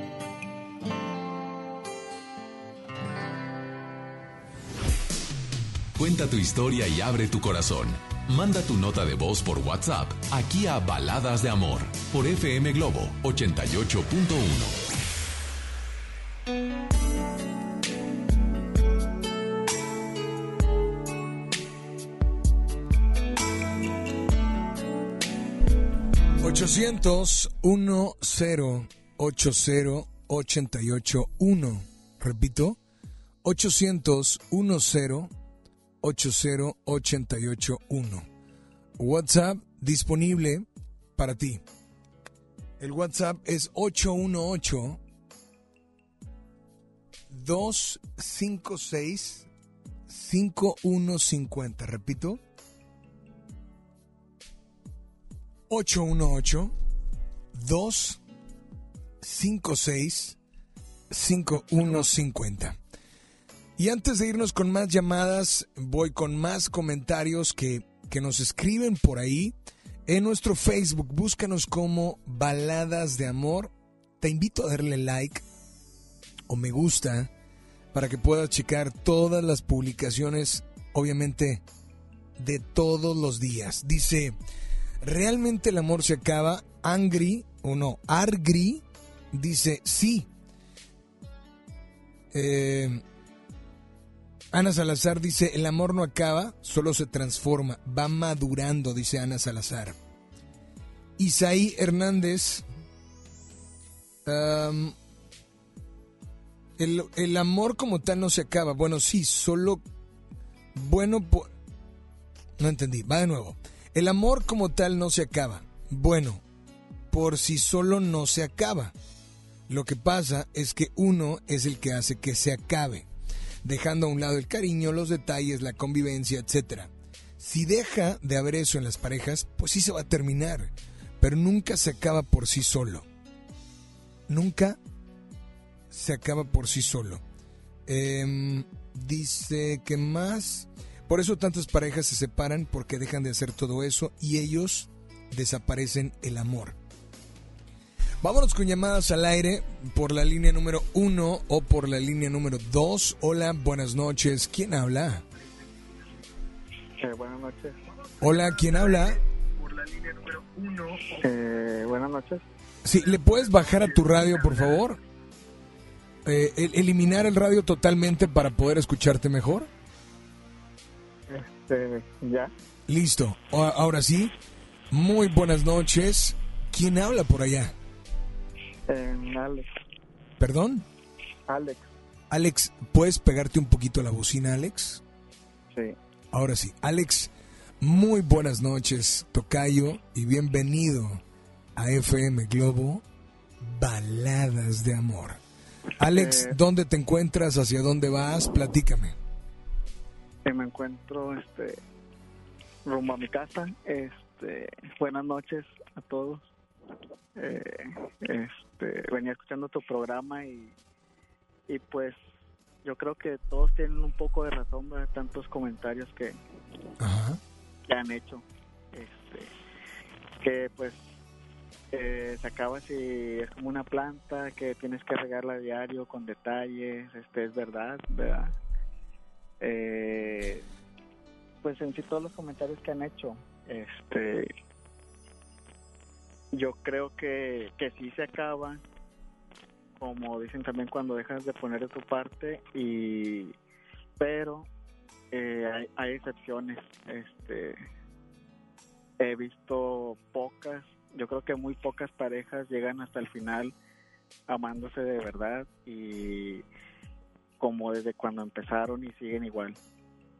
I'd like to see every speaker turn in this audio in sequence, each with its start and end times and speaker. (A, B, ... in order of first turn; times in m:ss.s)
0:06.0-0:14.8 A
0:26.4-0:32.8 B
0:33.4-0:35.3 B
0:36.0-0:38.2 B
0:39.0-0:40.6 B
0:41.2-0:41.6 B
0:42.8-0:45.0 B
0:47.3-0:49.5 B
0:50.1-0:52.4 B
0:55.7-0:56.7 B
0:57.5-0:58.2 B
0:59.2-1:00.4 B
1:01.1-1:02.8 B
1:03.8-1:09.5 B
1:10.0-1:15.4 B
1:16.5-1:17.3 B
1:17.9-1:21.6 B
1:22.4-1:24.3 B
1:25.0-1:30.3 B
1:32.3-1:33.0 B
1:34.5-1:40.0 B
1:41.2-1:42.6 B
1:44.2-1:44.9 B
1:46.8-1:49.8 B
1:50.7-1:51.5 B
1:52.6-1:56.4 B
1:57.1-1:58.9 B
1:59.7-2:03.1 B
2:03.6-2:13.0 B
2:14.3-2:14.8 B
2:15.9-2:17.2 B
2:17.9-2:26.8 B
2:28.2-2:35.2 B
2:37.0-2:37.8 C
2:38.2-2:39.2 B
2:41.0-2:42.4 C
2:42.8-2:45.0 B
2:46.2-2:49.7 B
2:51.3-2:52.5 C
2:52.9-2:54.3 B
2:54.9-2:57.7 B
2:58.9-2:59.7 C
3:00.4-3:00.8 B
3:01.5-3:01.9 C
3:02.3-3:05.0 B
3:06.3-3:11.2 B
3:11.8-3:13.0 B
3:13.6-3:15.4 B
3:16.0-3:19.2 B
3:16.1-3:16.5 C
3:20.4-3:21.8 C
3:22.8-3:26.4 C
3:27.4-3:30.7 C
3:31.7-3:32.2 C
3:32.8-3:36.4 C
3:37.0-3:37.4 B
3:37.9-3:39.5 C
3:40.4-3:41.1 C
3:41.9-3:48.5 C
3:49.6-3:50.6 C
3:51.6-3:54.5 C
3:56.5-3:58.8 C
4:00.0-4:03.5 C
4:04.2-4:04.7 C
4:05.3-4:07.8 C
4:09.2-4:13.7 C
4:14.5-4:16.6 C
4:17.6-4:19.8 C